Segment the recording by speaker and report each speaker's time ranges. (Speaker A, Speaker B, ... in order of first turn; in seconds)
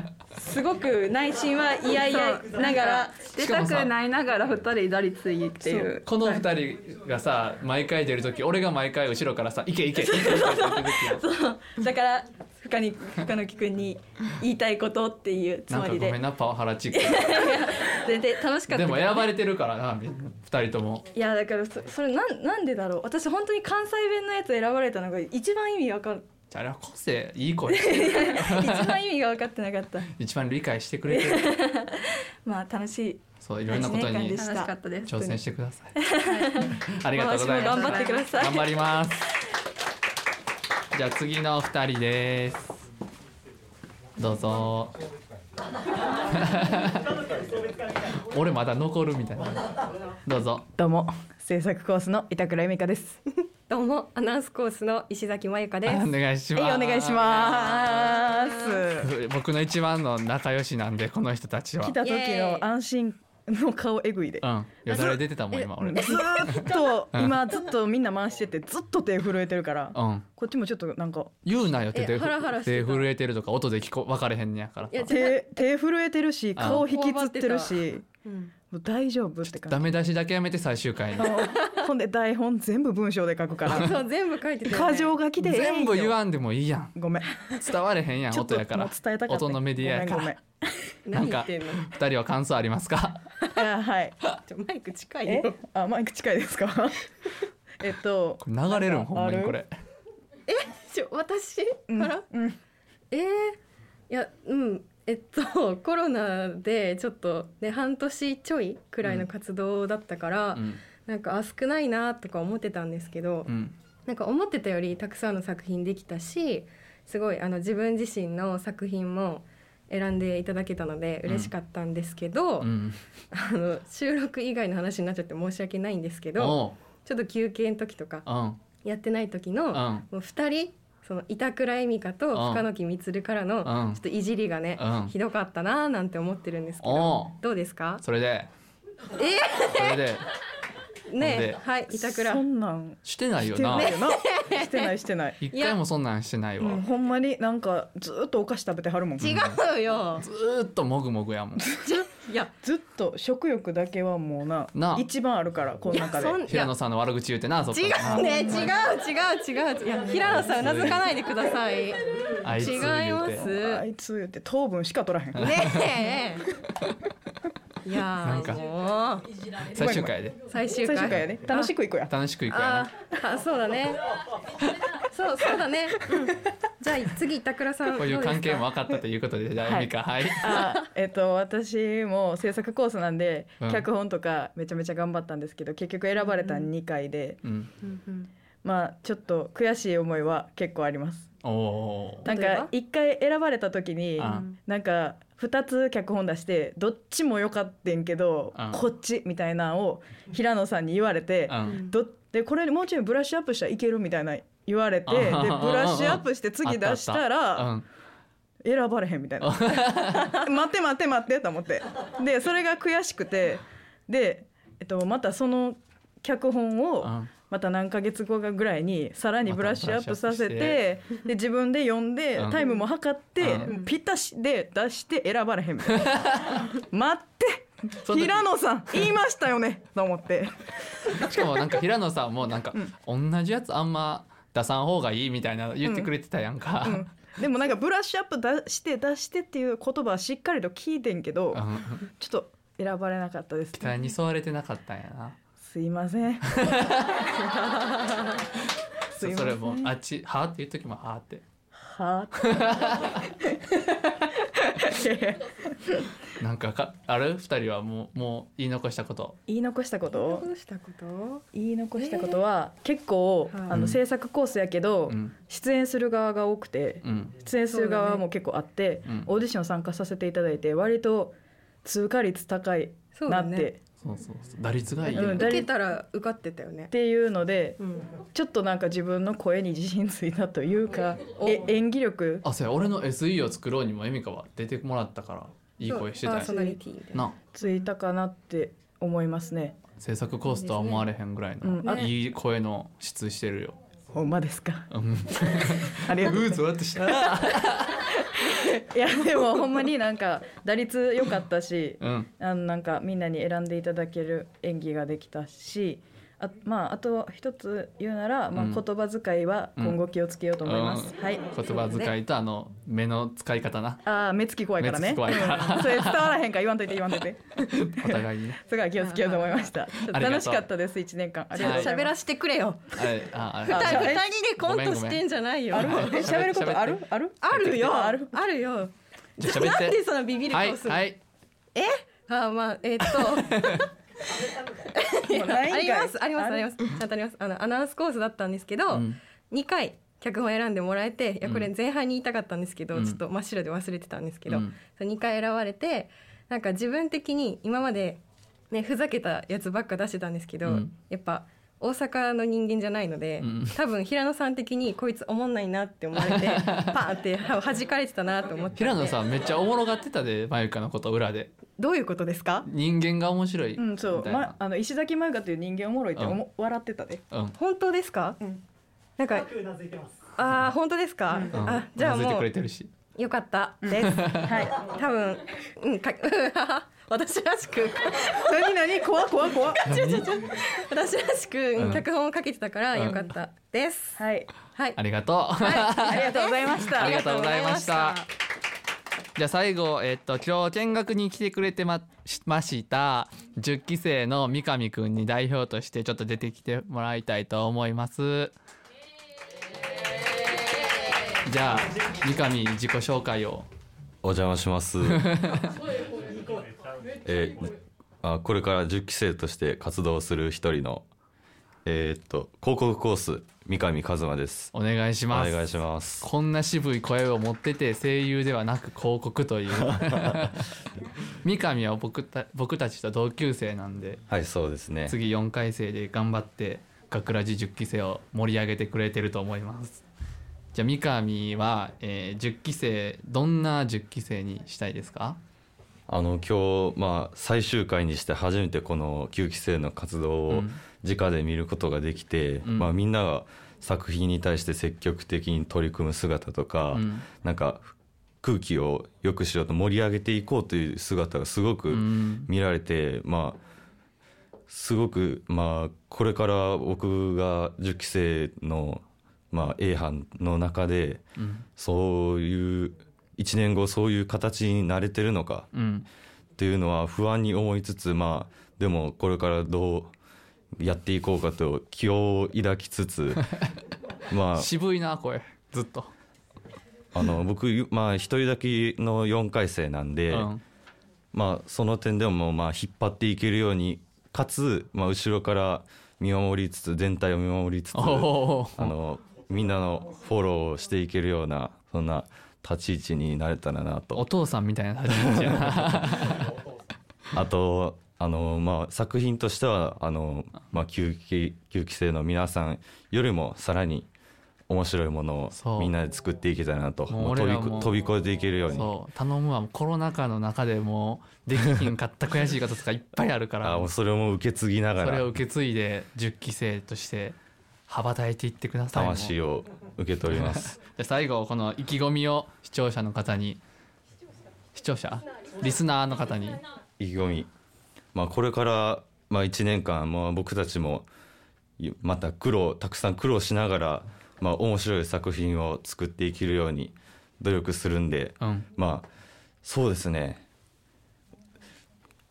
Speaker A: 0.3-3.2, 5.6-5.9, 10.0-16.2, 16.9-19.3, 21.1-26.2, 27.7-30.1, 31.1-34.7, 36.0-38.9
Speaker B: 2.0-6.0, 34.4-35.2, 36.3-36.7, 37.5-38.3
Speaker C: 3.4-3.9, 6.0-11.2, 15.7-17.7, 18.7-21.0, 26.5-29.0, 30.2-31.6, 33.4-34.4, 35.0-35.9, 36.9-39.3, 40.9-42.8, 44.2-44.9, 46.3-47.2, 48.2-50.7, 55.9-57.8, 59.0-62.0, 64.4-67.4, 69.9-70.2, 71.4-75.1, 76.5-76.8, 79.4-81.4, 85.4-87.0, 87.6-90.4, 91.1-93.3, 98.4-99.7, 110.5-110.8, 113.5-113.7, 121.2-121.5, 122.6-123.0, 126.4-126.8, 128.2-128.6, 129.7-130.1, 132.3-132.6, 133.6-134.0, 134.8-135.1, 136.8-137.4, 138.0-138.5, 139.7-140.2, 141.2-141.6, 143.0-143.9, 145.4-146.8, 149.2-149.6, 150.2-151.7, 154.7-155.1, 156.5-158.3, 160.4-161.0, 162.4-163.5, 165.3-165.8, 168.2-168.6, 169.7-170.4, 172.1-172.9, 178.0-180.6, 187.4-187.7, 191.4-192.3, 194.2-194.4, 198.5-198.8, 201.5-201.8, 205.1-207.8, 209.4-210.3, 217.0-217.3, 219.5-220.8, 222.3-222.6, 223.4-223.7, 226.0-226.5, 228.0-229.0, 231.1-237.1, 241.5-242.1, 243.8-245.4, 246.5-247.2, 249.1-251.4, 252.4-253.1, 256.4-259.4, 263.7-264.0, 265.1-265.4, 267.0-267.4, 274.0-275.6, 282.4-286.5, 290.0-293.8, 294.9-298.1, 302.0-302.3, 308.5-308.8, 310.6-314.0, 314.8-316.3, 317.7-318.6, 320.0-320.6, 321.6-321.9, 322.9-327.0, 329.4-331.2, 333.2-333.8, 338.9-339.2, 341.4-341.7, 344.5-344.7, 350.6-350.9, 353.4-353.8, 356.2-357.0, 358.8-361.5, 362.6-364.5, 371.5-372.9, 374.0-374.5, 379.8-380.3, 381.8-382.0, 384.9-388.2, 389.4-398.5, 401.4-403.7, 405.1-405.7, 414.7-415.7, 416.2-420.6, 421.4-424.2, 425.1-430.0, 430.7-435.4, 440.5-440.8, 442.6-442.9, 446.9-447.3, 451.9-452.5, 461.4-461.6, 465.7-466.1, 474.5-476.1, 480.3-480.6, 487.9-488.9, 494.1-496.5, 505.5-505.9, 507.1-508.0, 508.7-513.9, 515.0-517.4, 517.9-519.3, 520.3-523.6, 524.7-526.6, 538.4-538.7
Speaker D: 50.8-53.2, 56.5-59.1, 61.8-65.2, 65.8-71.3, 75.1-78.0, 78.6-79.9, 81.2-84.0, 84.6-86.1, 86.9-87.6, 88.3-90.8, 93.5-94.2, 95.2-97.0, 97.8-99.6, 101.9-102.6, 141.9-145.4, 146.6-149.4, 152.6-156.5, 158.2-158.7, 163.4-165.7, 169.7-170.1, 170.8-172.1, 179.6-187.4, 188.6-191.3, 192.2-207.7, 208.6-230.5, 235.8-236.1, 236.8-241.6, 242.2-244.1, 245.6-246.7, 249.2-249.9, 251.7-253.0, 254.6-255.9, 259.5-260.5, 261.5-273.8, 275.1-275.7, 276.9-282.4, 286.4-286.8, 287.5-289.8, 291.6-292.1, 294.1-294.9, 295.9-297.3, 298.9-311.5, 314.0-322.1, 323.7-324.3, 325.7-328.4, 335.3-336.7, 363.8-367.2, 373.8-374.9, 378.5-379.9, 384.2-384.5, 386.0-387.2
Speaker E: 53.7-56.1, 57.3-58.8, 62.0-62.6, 66.0-66.5, 71.9-73.1, 74.9-75.5, 76.6-78.5, 83.7-85.2, 91.0-91.9, 94.5-95.6, 100.5-102.2, 103.1-103.6, 104.1-113.5, 114.0-122.7, 123.3-128.2, 128.8-138.0, 139.2-140.0, 141.1-142.4, 143.7-144.8, 145.5-145.8, 149.2-150.2, 151.8-152.5, 155.9-156.7, 157.7-162.0, 162.5-163.8, 165.4-166.4, 167.8-169.3, 170.5-171.7, 172.5-174.0, 175.1-178.7, 186.2-186.7, 187.8-188.3, 192.2-192.7, 194.2-194.5, 201.7-201.9, 223.6-223.9, 260.1-261.4, 262.0-262.4, 267.7-268.2, 273.1-273.7, 275.1-276.9, 277.8-278.1, 281.4-281.7, 285.8-287.2, 290.5-291.0, 319.0-319.7, 321.5-322.8, 323.6-326.3, 327.4-328.9, 329.4-331.0, 331.8-333.8, 334.9-359.2, 361.8-362.7, 367.6-368.4, 369.2-369.5, 370.4-372.5, 373.1-378.7, 379.8-384.2, 384.7-385.0, 385.6-388.2
Speaker F: 404.2-405.2, 407.2-411.0, 411.8-414.7, 415.3-416.3, 424.3-425.1, 436.1-453.6, 454.7-461.2, 461.8-465.7, 466.6-470.1, 470.8-473.4, 474.3-474.7, 477.1-480.5, 481.3-494.2, 497.3-504.1, 504.7-508.9, 513.6-515.3, 518.9-520.8, 527.0-527.5, 528.1-531.0, 531.8-539.1, 539.6-540.4